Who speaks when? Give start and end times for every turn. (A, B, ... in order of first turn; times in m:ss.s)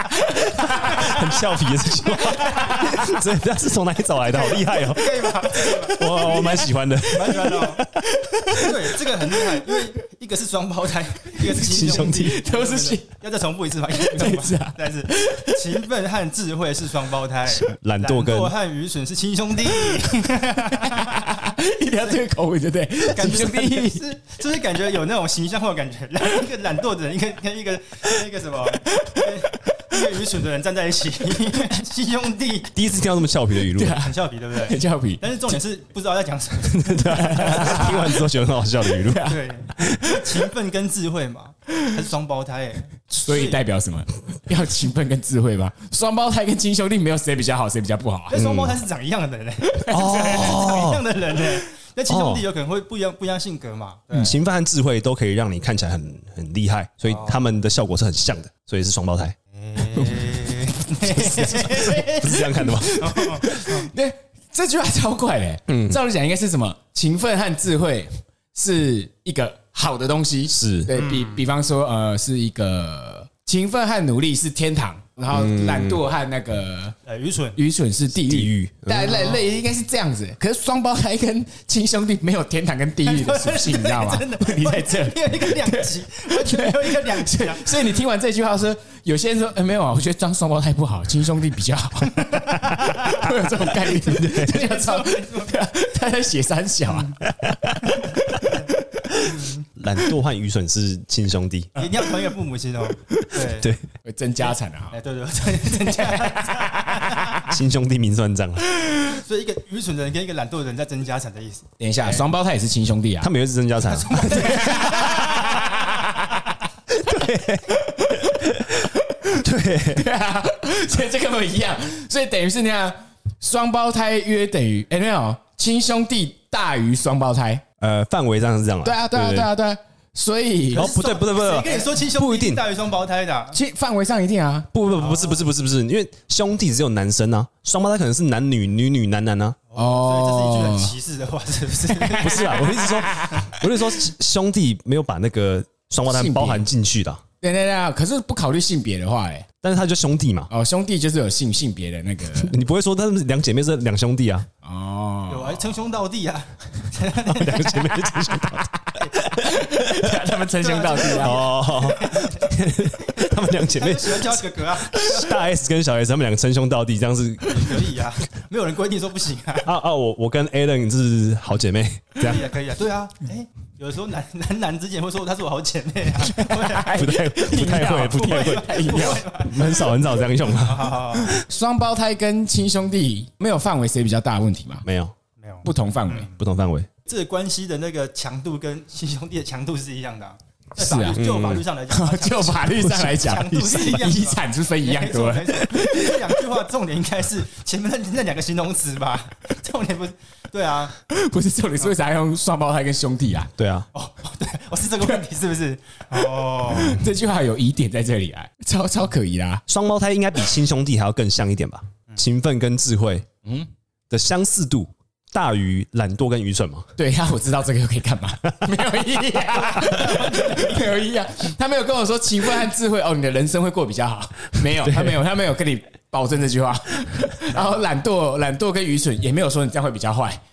0:00.6-0:01.0 A
0:00.6-0:07.5 B
0:02.4-0:03.0 A
0:04.3-0:07.9 C
0:07.9-0:08.7 A
0:08.5-0:21.2 C
0:11.3-0:13.1 A
0:11.6-0:12.3 B
0:13.9-0:15.6 A
0:17.6-0:18.5 B
0:20.8-0:24.0 A
0:23.1-0:32.7 C
0:28.8-0:29.6 A
0:32.7-0:34.0 B
0:33.7-0:35.2 A
0:33.9-0:38.2 C
0:36.6-0:39.3 B
0:37.0-0:38.1 A
0:39.0-0:39.4 A
0:39.2-0:43.6 C
0:43.1-0:48.4 A
0:48.3-0:54.4 C
0:48.3-0:48.7 B
0:49.6-0:50.6 A
0:49.9-0:51.0 B
0:52.1-0:52.4 B
0:54.1-0:59.4 B
0:57.0-0:57.4 C
0:59.6-1:03.9 C
1:01.1-1:03.2 B
1:02.6-1:17.0 A
1:05.7-1:06.0 B
1:10.5-1:10.9 B
1:10.9-1:11.4 C
1:15.3-1:16.0 B
1:17.0-1:17.6 C
1:17.5-1:39.3 A
1:18.1-1:19.2 B
1:19.1-1:19.4 C
1:23.0-1:27.9 C
1:33.8-1:35.6 C
1:34.1-1:34.6 B
1:39.8-1:41.8 B
1:41.8-1:43.7 C
1:43.6-1:43.8 B
1:44.0-1:45.0 A
1:44.4-1:47.4 C
1:45.8-1:47.3 A
1:47.4-1:48.6 B
1:48.8-1:49.2 A
1:49.1-1:52.2 C
1:51.8-1:53.3 A
1:53.2-1:55.8 B
1:53.8-1:55.6 C
1:54.3-1:56.4 A
1:56.9-1:57.6 B
1:57.9-1:58.3 A
1:59.3-2:00.1 B
1:59.9-2:07.6 A
2:07.8-2:09.5 B
2:08.8-2:10.9 A
2:10.7-2:13.6 C
2:10.7-2:12.6 B
2:13.5-2:14.7 A
2:14.7-2:19.6 B
2:14.9-2:15.5 C
2:19.7-2:22.7 C
2:19.8-2:20.9 A
2:21.9-2:23.5 A
2:22.2-2:27.2 B
2:26.0-2:26.6 A
2:27.4-2:29.4 A
2:29.6-2:30.5 B
2:30.5-2:32.5 A
2:32.3-2:34.4 B
2:34.6-2:35.6 A
2:35.3-2:37.9 C
2:37.2-2:38.8 B
2:39.0-2:39.4 C
2:39.4-2:41.5 A
2:40.5-2:42.5 C
2:41.1-2:47.7 B
2:43.2-2:45.4 C
2:47.5-2:49.7 C
2:49.6-2:52.4 B
2:52.2-2:57.0 C
2:56.2-2:59.3 A
2:56.9-3:00.9 B
2:58.1-3:01.4 C
3:01.2-3:04.8 A
3:04.8-3:05.1 B
3:05.4-3:06.3 C
3:05.6-3:06.3 A
3:06.4-3:06.9 B
3:07.0-3:20.9 C
3:10.8-3:11.2 A
3:11.1-3:11.6 B
3:11.9-3:16.1 A
3:12.8-3:14.1 B
3:21.0-3:23.5 A
3:23.6-3:23.9 B
3:23.9-3:27.0 C
3:26.6-3:29.6 A
3:29.7-3:33.2 B
3:34.1-3:36.9 B
3:37.0-3:50.4 A
3:39.5-3:41.0 C
3:44.6-3:45.2 B